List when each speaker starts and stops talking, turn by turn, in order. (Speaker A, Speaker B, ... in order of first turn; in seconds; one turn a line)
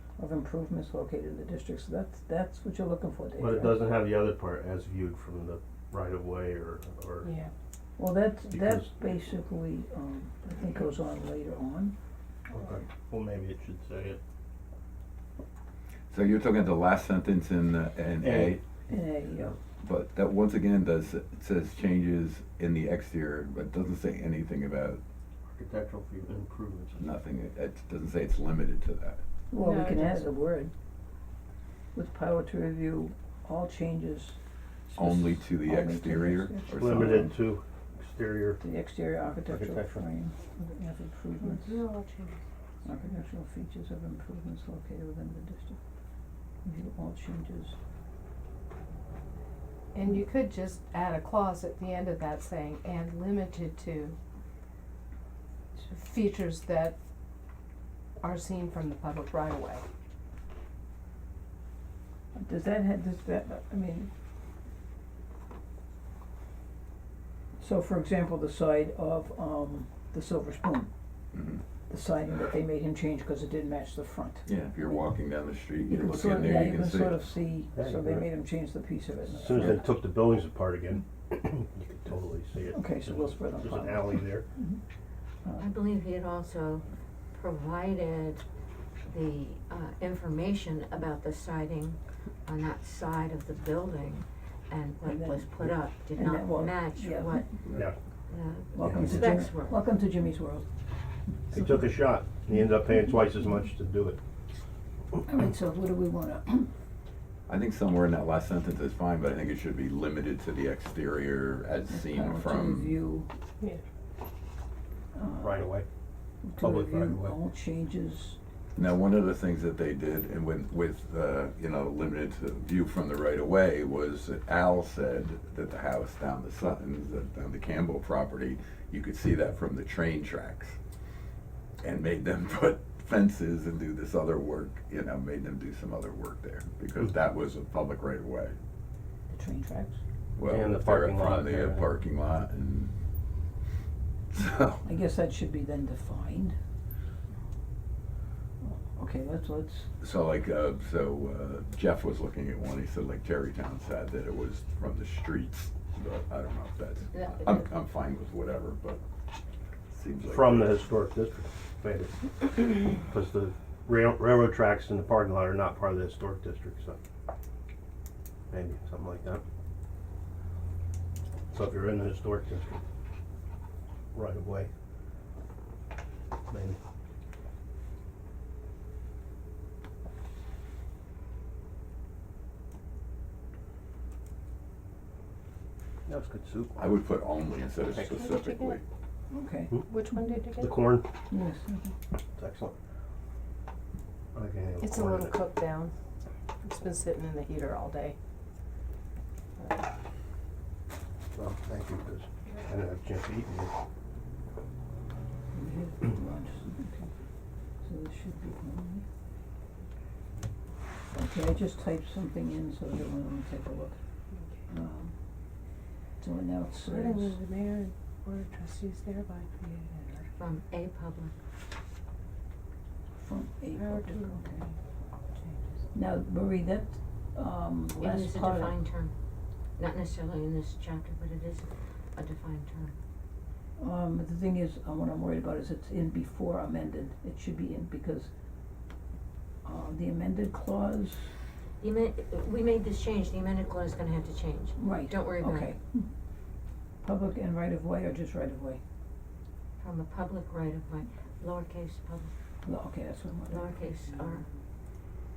Speaker A: 0.2-3.8
Speaker B: 3.4-7.3
Speaker C: 7.2-7.5
Speaker A: 8.0-11.9
Speaker B: 8.5-8.9
Speaker B: 12.5-14.2
Speaker D: 16.1-18.6
Speaker B: 18.2-18.6
Speaker A: 18.9-19.6
Speaker D: 19.8-25.0
Speaker B: 25.5-27.0
Speaker D: 27.0-29.2
Speaker A: 29.5-30.7
Speaker C: 29.6-30.3
Speaker A: 31.9-34.4
Speaker A: 34.9-37.3
Speaker D: 35.0-37.3
Speaker B: 36.7-38.6
Speaker A: 38.6-41.8
Speaker B: 39.5-40.0
Speaker C: 41.4-42.4
Speaker A: 42.9-45.8
Speaker A: 46.6-47.8
Speaker C: 49.9-54.2
Speaker C: 55.8-57.0
Speaker C: 58.2-59.8
Speaker A: 62.3-64.1
Speaker A: 67.6-70.9
Speaker D: 71.3-71.6
Speaker A: 71.9-74.5
Speaker D: 74.5-77.3
Speaker A: 75.9-79.9
Speaker B: 77.7-78.3
Speaker B: 79.3-84.5
Speaker A: 82.7-84.8
Speaker E: 85.6-88.4
Speaker E: 89.1-97.5
Speaker A: 95.0-97.5
Speaker E: 98.3-99.8
Speaker A: 98.7-100.7
Speaker B: 98.8-99.2
Speaker A: 101.5-101.9
Speaker B: 101.5-104.2
Speaker A: 105.2-106.7
Speaker D: 107.5-113.0
Speaker A: 111.9-113.3
Speaker A: 115.2-115.7
Speaker B: 115.4-115.9
Speaker A: 116.4-118.4
Speaker B: 116.6-117.3
Speaker D: 118.8-130.8
Speaker D: 131.8-138.6
Speaker A: 139.3-140.0
Speaker D: 140.4-142.9
Speaker B: 140.4-141.9
Speaker D: 144.3-144.8
Speaker A: 144.8-146.6
Speaker A: 148.6-149.9
Speaker D: 150.0-159.0
Speaker D: 159.9-160.8
Speaker B: 160.2-167.0
Speaker B: 168.5-169.4
Speaker B: 171.5-172.8
Speaker B: 174.1-174.7
Speaker B: 176.5-176.8
Speaker B: 186.1-186.8
Speaker D: 186.8-188.8
Speaker B: 187.9-188.3
Speaker C: 188.2-188.8
Speaker A: 189.3-190.3
Speaker C: 189.9-190.8
Speaker B: 190.6-191.1
Speaker A: 191.3-191.9
Speaker B: 192.3-192.8
Speaker B: 194.3-195.4
Speaker C: 194.8-195.9
Speaker C: 196.6-198.2
Speaker C: 199.6-199.8
Speaker B: 201.3-203.7
Speaker A: 205.5-207.1
Speaker A: 207.8-209.1
Speaker A: 211.1-214.0
Speaker A: 214.7-215.1
Speaker A: 216.2-217.4
Speaker C: 216.8-220.3
Speaker E: 220.4-221.3
Speaker A: 223.2-224.7
Speaker C: 223.7-224.7
Speaker C: 225.3-225.7
Speaker A: 225.9-228.8
Speaker E: 228.0-229.1
Speaker E: 229.8-232.9
Speaker A: 233.8-238.3
Speaker A: 239.6-241.3
Speaker E: 241.8-245.7
Speaker A: 244.8-246.1
Speaker A: 247.0-248.8
Speaker E: 249.8-252.3
Speaker A: 252.6-254.5
Speaker E: 253.5-254.5